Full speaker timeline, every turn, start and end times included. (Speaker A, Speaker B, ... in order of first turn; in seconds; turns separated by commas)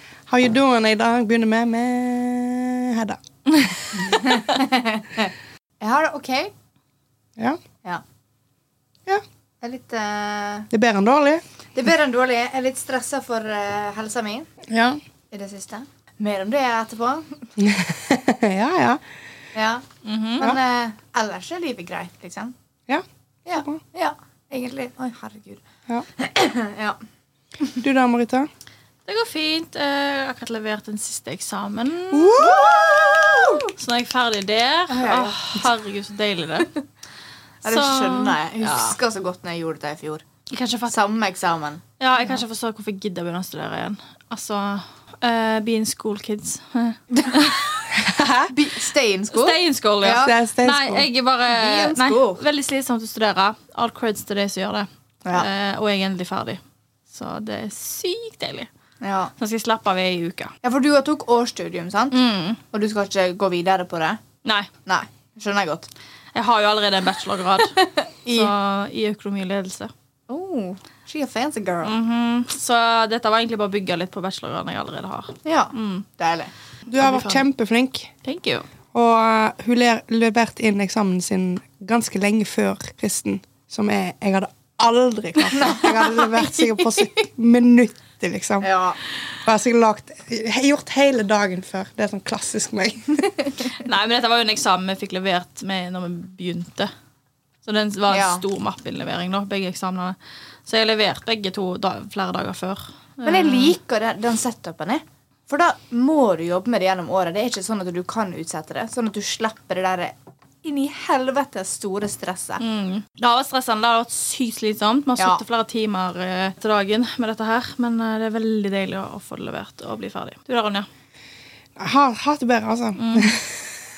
Speaker A: 0.3-3.2, Speaker B: 4.0-6.5, Speaker B: 9.6-10.7, Speaker A: 10.7-11.4, Speaker B: 11.7-14.5, Speaker A: 14.7-15.0, Speaker B: 15.3-17.5, Speaker A: 17.6-19.0, Speaker B: 19.5-19.8, Speaker C: 20.0-20.5, Speaker B: 20.4-22.5, Speaker B: 23.4-25.6, Speaker B: 26.2-27.0, Speaker A: 27.8-28.5, Speaker C: 29.1-32.5, Speaker A: 32.1-33.6, Speaker B: 32.4-33.7, Speaker C: 33.7-36.8, Speaker B: 34.9-35.6, Speaker B: 37.6-40.2, Speaker C: 37.7-39.0, Speaker C: 40.5-41.0, Speaker B: 40.9-41.8, Speaker C: 42.0-47.7, Speaker B: 47.1-47.4, Speaker A: 47.9-48.5, Speaker B: 48.5-50.3, Speaker C: 49.3-58.7, Speaker A: 50.1-51.1, Speaker B: 51.5-52.4, Speaker B: 59.0-59.3, Speaker C: 59.4-60.5, Speaker B: 60.6-62.2, Speaker C: 62.1-62.6, Speaker B: 62.7-64.2, Speaker B: 64.8-65.9, Speaker C: 66.3-69.9, Speaker B: 67.8-68.5, Speaker B: 70.3-71.9, Speaker C: 71.8-76.0, Speaker B: 75.4-76.5, Speaker A: 76.9-78.1, Speaker C: 77.0-77.4, Speaker C: 78.2-78.6, Speaker A: 78.9-88.7, Speaker B: 85.5-87.2, Speaker B: 88.6-89.0, Speaker A: 89.4-93.3, Speaker C: 93.7-96.9, Speaker C: 97.6-103.8, Speaker B: 98.1-98.4, Speaker B: 103.2-112.6, Speaker C: 112.6-120.9, Speaker B: 115.2-115.4, Speaker A: 121.8-123.8, Speaker C: 123.0-123.3